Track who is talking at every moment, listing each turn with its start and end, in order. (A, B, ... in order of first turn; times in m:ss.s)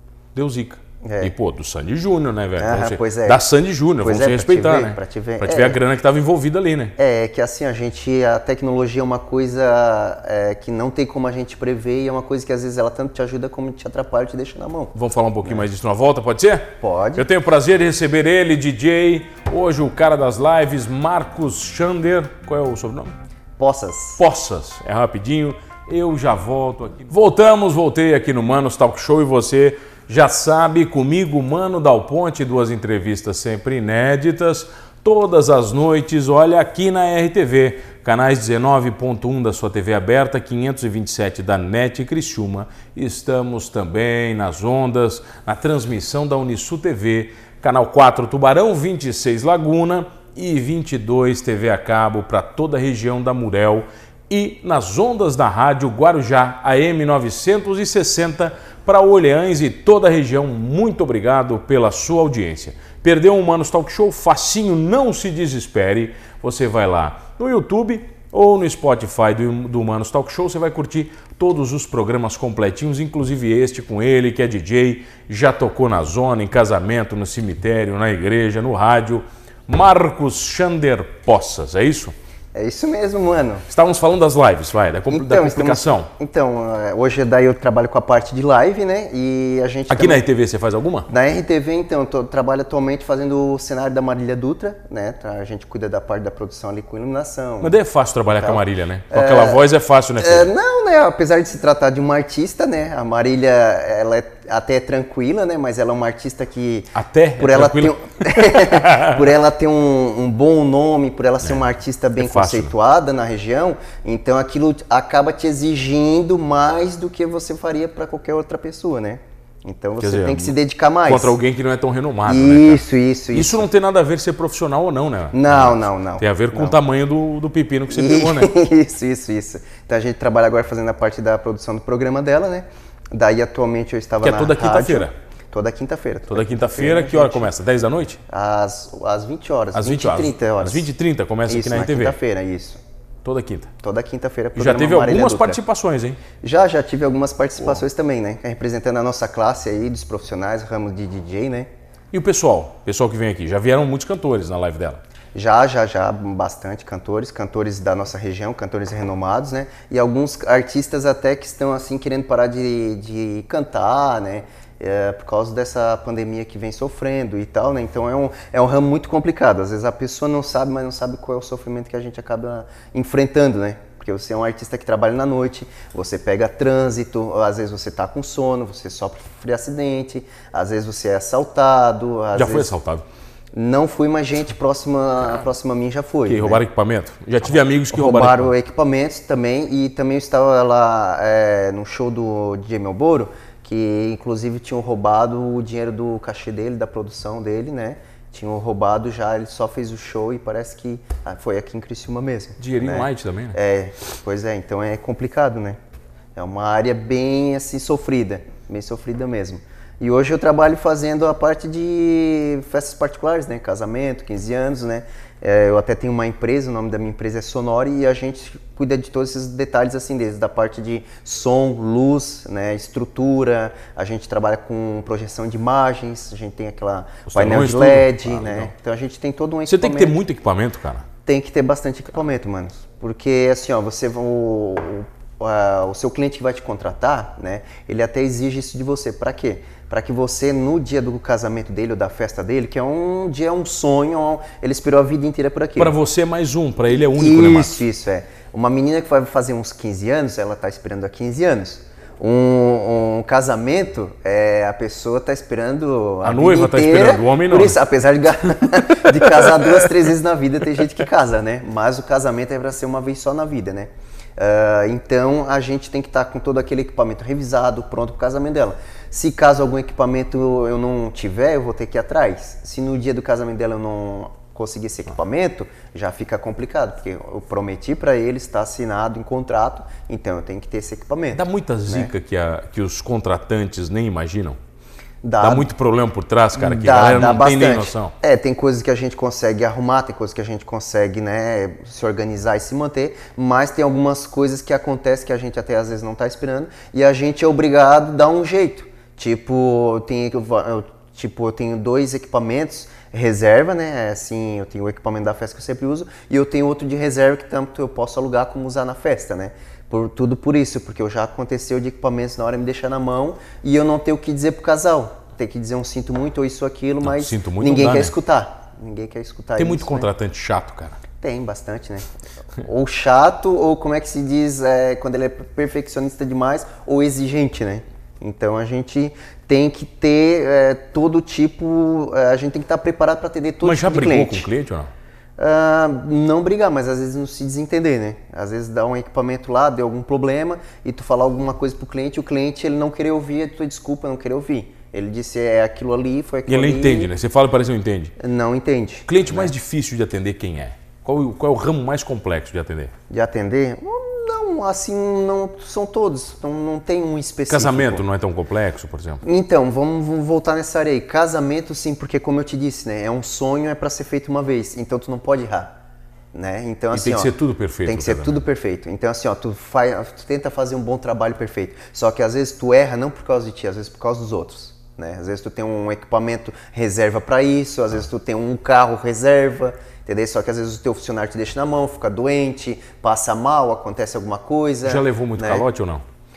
0:00.3-0:06.9 A
0:01.0-0:01.3 B
0:02.6-0:03.4 B
0:04.0-0:05.8 B
0:07.0-0:14.9 B
0:14.9-0:23.1 A
0:16.8-0:17.2 B
0:23.6-0:24.2 B
0:24.2-1:22.1 A
1:22.5-1:23.6 B
1:23.7-1:26.1 A
1:25.1-1:30.2 B
1:29.9-1:31.1 A
1:31.1-1:39.6 B
1:37.6-1:40.5 A
1:40.2-2:01.4 B
1:46.9-1:49.2 A
1:52.2-1:52.7 A
2:00.0-2:08.5 A
2:02.2-2:03.7 B
2:05.3-2:06.8 B
2:07.9-2:17.5 B
2:14.2-2:15.1 A
2:16.3-2:18.2 A
2:18.3-2:20.9 B
2:19.7-2:22.2 A
2:21.4-2:22.8 B
2:23.2-2:23.7 A
2:23.8-2:25.6 B
2:24.5-2:26.2 A
2:26.4-2:31.7 B
2:32.1-2:35.0 A
2:35.3-3:02.7 B
3:02.3-3:03.0 A
3:03.5-3:06.6 B
3:06.2-3:08.5 A
3:07.4-3:25.8 B
3:22.6-3:23.6 A
3:26.4-3:50.2 B
3:47.3-3:48.7 A
3:49.7-3:51.0 A
3:51.2-4:05.9 B
4:05.8-4:07.8 A
4:06.9-4:42.1 B
4:16.2-4:17.8 A
4:41.3-4:44.6 A
4:45.2-4:45.7 B
4:45.4-4:48.1 A
4:46.6-5:20.1 B
5:17.0-5:18.1 A
5:19.6-5:21.0 A
5:21.2-5:22.0 B
5:22.6-5:34.5 B
5:33.6-5:34.9 A
5:35.4-5:47.1 B
5:46.5-5:48.1 A
5:48.2-5:49.5 B
5:49.1-5:52.9 A
5:53.1-5:58.0 B
5:57.5-5:59.2 A
5:59.2-6:05.7 B
6:06.3-6:07.3 B
6:06.9-6:08.4 A
6:07.8-6:25.6 B
6:24.8-6:26.0 A